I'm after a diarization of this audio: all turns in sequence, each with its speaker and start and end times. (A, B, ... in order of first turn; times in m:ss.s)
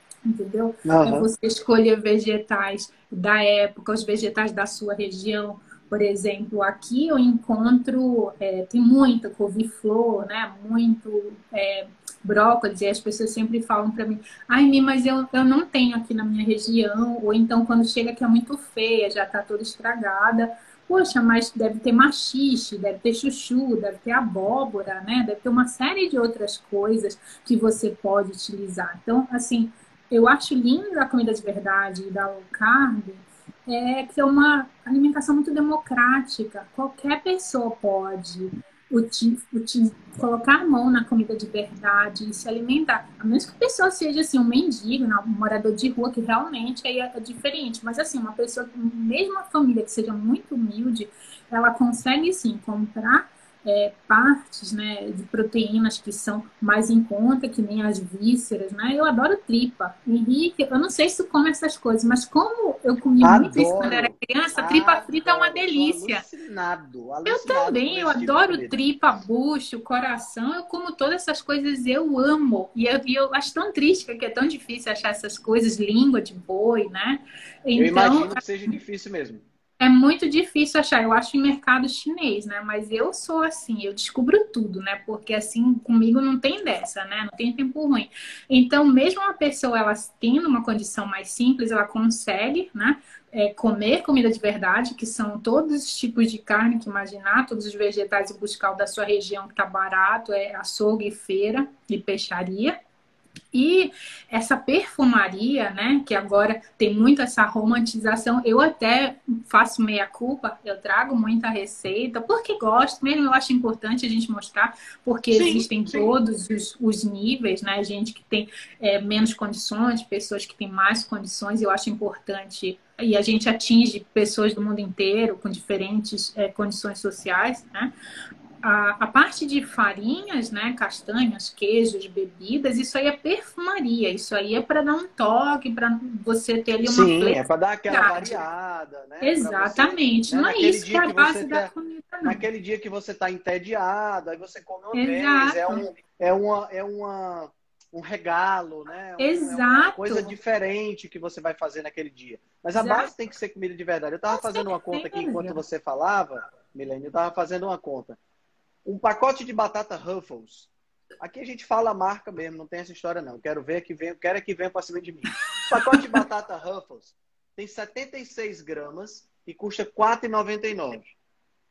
0:00.2-1:06.2 A
0:00.8-0:01.3 B
1:03.2-1:08.7 B
1:07.2-1:18.7 A
1:17.8-1:19.4 B
1:19.8-1:42.8 A
1:43.5-2:07.9 A
1:55.3-1:56.2 B
2:08.6-2:18.4 A
2:16.8-2:21.7 B
2:19.2-2:22.4 A
2:22.2-2:38.2 B
2:24.9-2:25.8 A
2:29.2-2:30.3 A
2:32.7-2:33.1 A
2:34.3-2:35.6 A
2:38.8-2:51.1 B
2:45.8-2:46.2 A